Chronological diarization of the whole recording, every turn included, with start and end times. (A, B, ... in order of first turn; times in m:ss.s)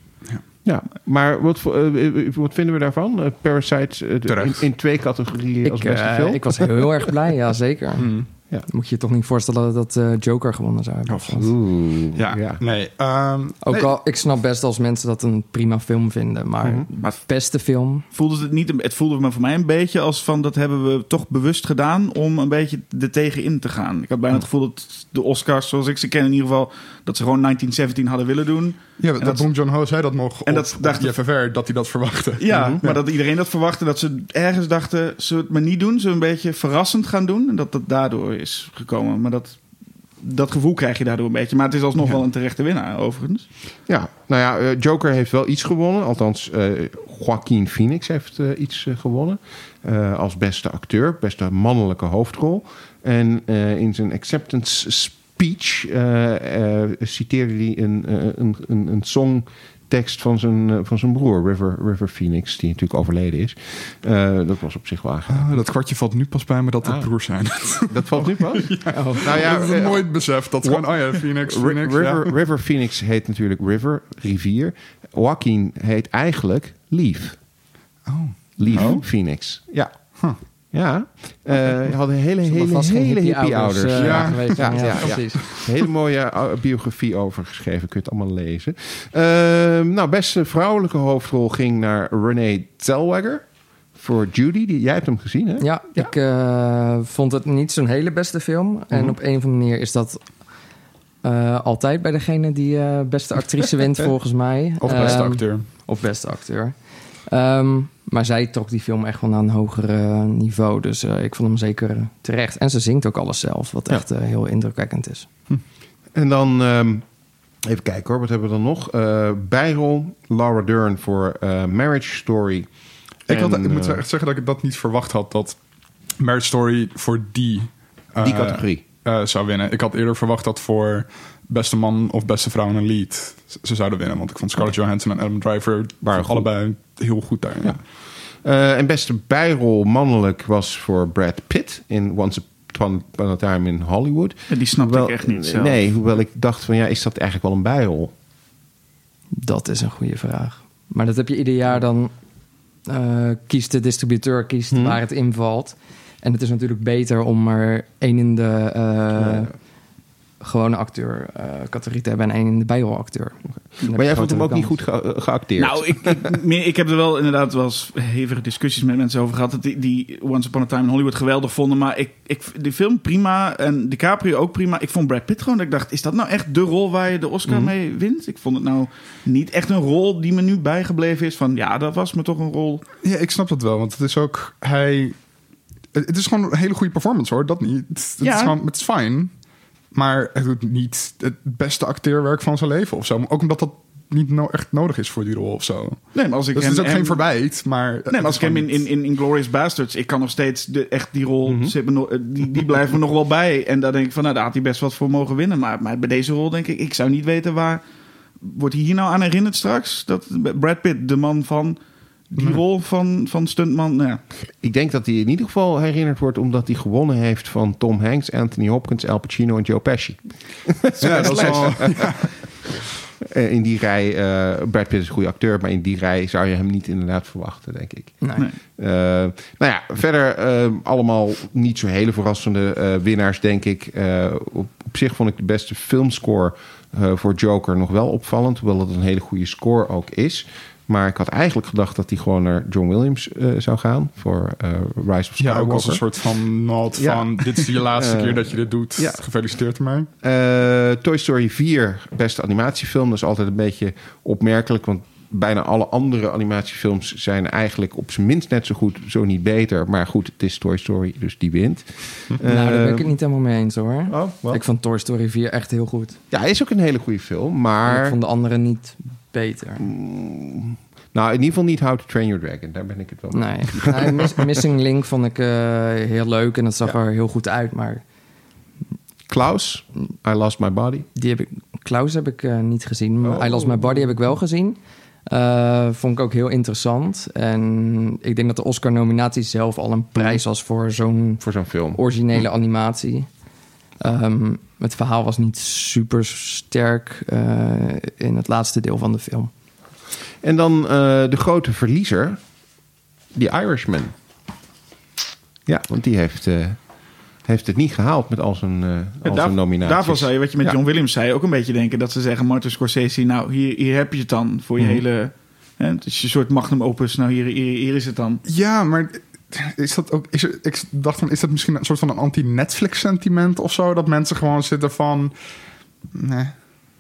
0:00.6-0:06.8 A
0:04.3-0:04.6 B
0:05.6-0:11.5 C
0:08.0-0:08.3 B
0:11.1-0:11.5 B
0:11.4-0:12.6 A
0:12.1-0:13.9 B
0:13.6-0:18.0 C
0:18.1-0:29.5 D
0:29.0-0:33.0 B
0:30.4-0:31.2 D
0:32.4-0:39.6 D
0:32.5-0:32.8 A
0:40.2-0:43.4 D
0:43.9-1:05.6 A
1:05.3-1:12.3 B
1:06.8-1:17.4 A
1:08.9-1:09.6 C
1:18.0-1:19.0 B
1:18.6-1:36.1 A
1:22.4-1:25.4 C
1:23.9-1:25.7 B
1:35.6-1:40.4 C
1:41.2-1:55.3 C
1:44.8-1:45.6 B
1:44.9-1:45.2 A
1:56.1-1:57.0 A
1:57.6-2:02.7 A
2:03.3-2:04.0 A
2:03.3-2:05.6 B
2:06.2-2:17.8 B
2:08.2-2:08.8 A
2:16.0-2:16.5 A
2:18.4-2:28.1 A
2:24.5-2:25.8 D
2:29.3-2:32.1 C
2:32.8-2:39.5 C
2:34.7-2:35.0 A
2:39.2-2:39.5 A
2:40.4-2:44.8 C
2:43.7-2:46.2 A
2:45.6-3:02.8 D
2:57.5-2:57.7 A
3:03.0-3:05.1 B
3:05.9-3:09.3 B
3:08.2-3:08.6 D
3:09.9-3:18.8 B
3:16.1-3:17.3 D
3:18.1-3:27.8 D
3:21.4-3:21.7 A
3:28.4-3:31.8 D
3:32.3-3:34.2 D
3:34.6-3:42.4 A
3:41.0-3:42.5 B
3:41.2-3:41.5 D
3:43.2-4:06.0 A
3:48.2-3:48.4 C
4:05.4-4:10.1 B
4:06.9-4:09.2 A
4:10.2-4:23.1 A
4:22.4-4:26.2 C
4:24.1-4:24.6 A
4:26.3-4:28.2 A
4:27.8-4:29.9 C
4:29.8-4:34.4 A
4:33.3-4:38.0 C
4:39.3-4:41.1 A
4:41.1-4:53.4 C
4:43.2-4:44.1 A
4:51.4-4:52.0 A
4:54.0-4:59.5 C
5:00.4-5:02.4 A
5:03.3-5:04.1 A
5:05.6-5:10.8 A
5:09.2-5:18.4 D
5:14.8-5:15.0 A
5:18.5-5:25.3 B
5:26.1-5:26.7 B